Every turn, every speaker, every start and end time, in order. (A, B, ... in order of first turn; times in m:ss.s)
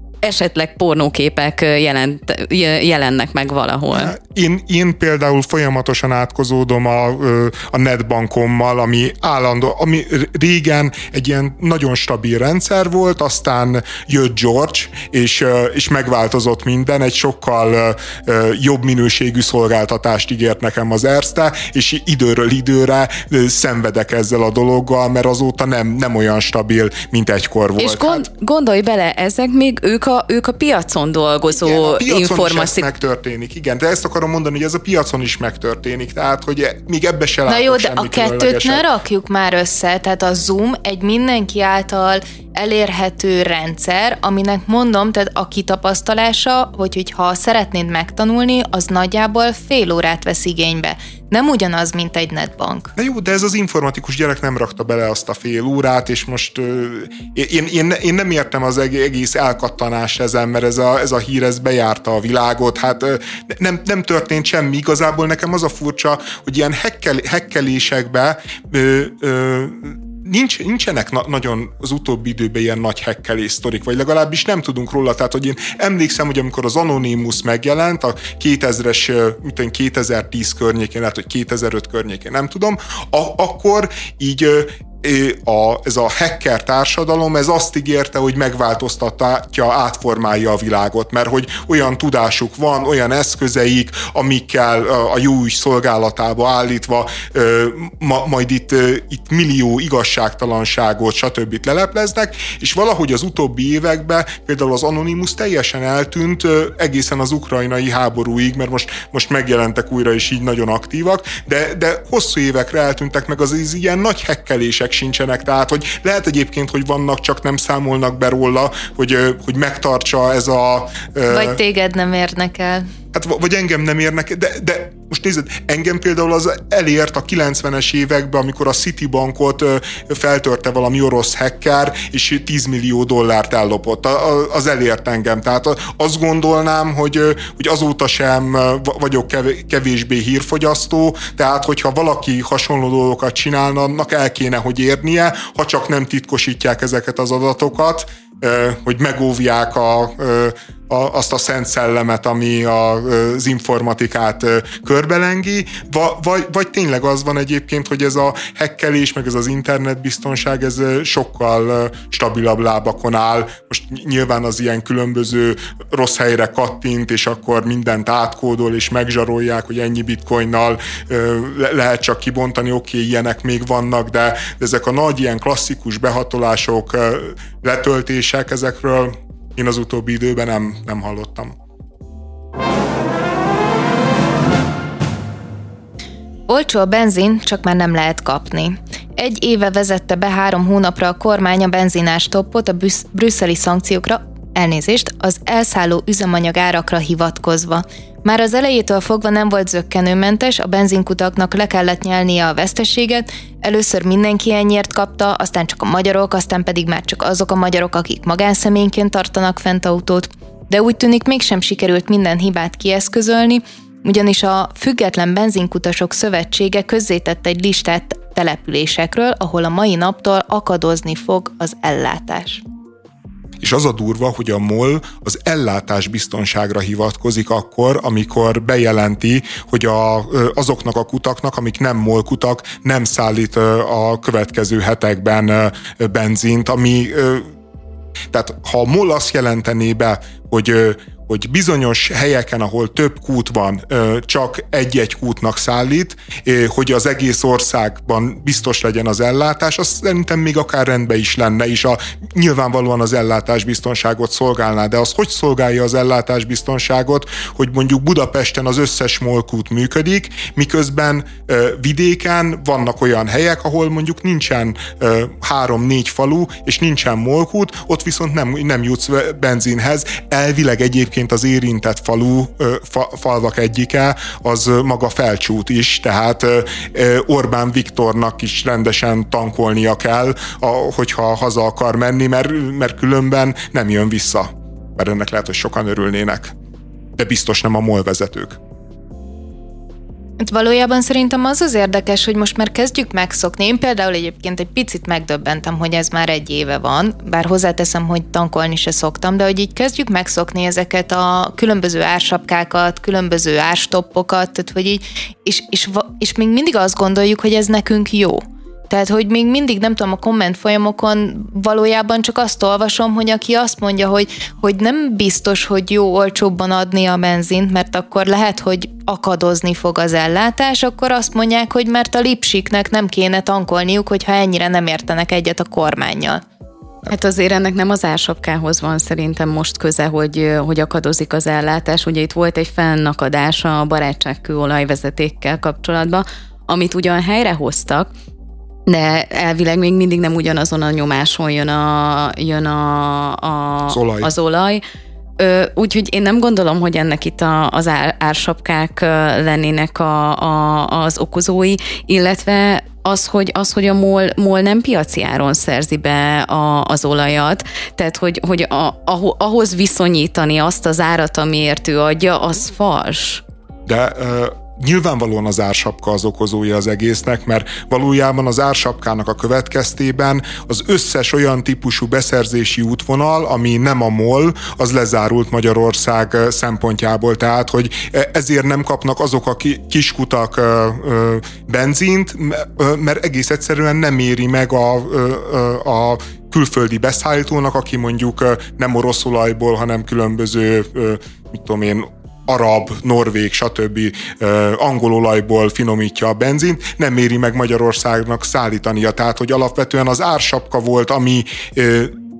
0:00.2-0:04.1 A
0:03.9-0:28.3 B
0:27.8-0:32.9 A
0:31.5-0:38.9 B
0:37.5-0:52.9 C
0:53.0-2:01.6 B
2:01.3-2:02.8 C
2:03.1-3:01.6 B
3:06.5-3:42.6 C
3:43.6-3:57.5 B
3:58.3-4:46.5 B
4:47.2-4:48.6 B
4:50.4-5:26.4 C
5:27.1-5:38.1 A
5:38.9-5:44.8 A
5:43.9-5:44.3 B
5:45.4-6:03.4 A
6:03.9-6:42.1 B